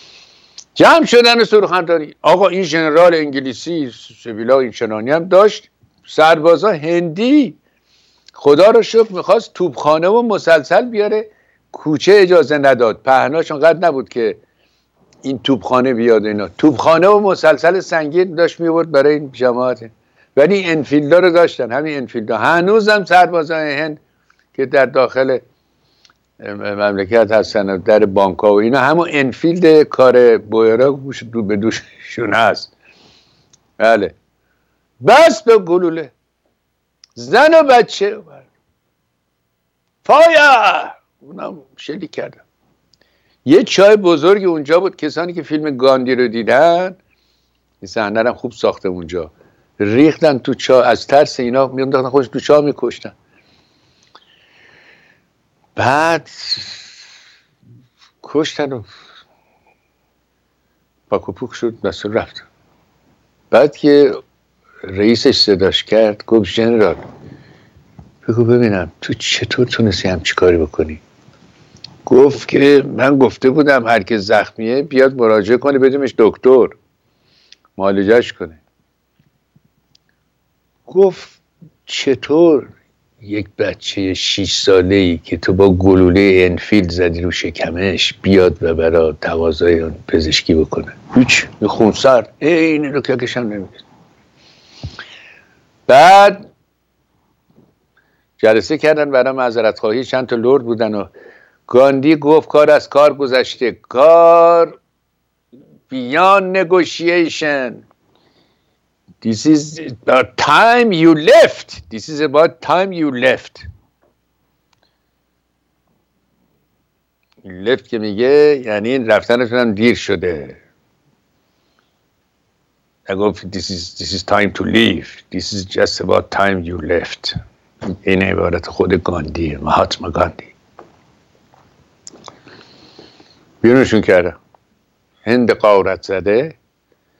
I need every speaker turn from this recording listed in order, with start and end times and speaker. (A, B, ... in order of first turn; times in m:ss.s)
0:00.8-0:07.6 A
0:08.4-0:14.4 A
0:15.2-0:24.0 A
0:24.5-0:25.4 A
0:26.4-0:32.7 A
0:33.8-0:34.2 A
0:35.0-0:36.1 A
0:37.2-0:38.5 A
0:40.0-0:42.4 A
0:43.4-0:47.0 A
0:47.8-0:53.1 A
0:55.8-0:56.9 A
0:58.2-0:58.9 A
1:01.1-1:02.5 A
1:03.5-1:04.2 A
1:04.9-1:07.0 A
1:08.2-1:11.0 A
1:12.1-1:16.8 A
1:17.8-1:18.6 A
1:20.9-1:22.7 A
1:23.2-1:33.8 A
1:35.9-1:36.5 A
1:38.4-1:41.1 A
1:41.7-1:44.8 A
1:45.9-1:47.8 A
1:49.2-1:53.6 A
1:57.4-2:00.6 A
2:03.1-2:07.4 A
2:08.0-2:10.6 A
2:13.6-2:14.4 A
2:15.2-2:16.6 A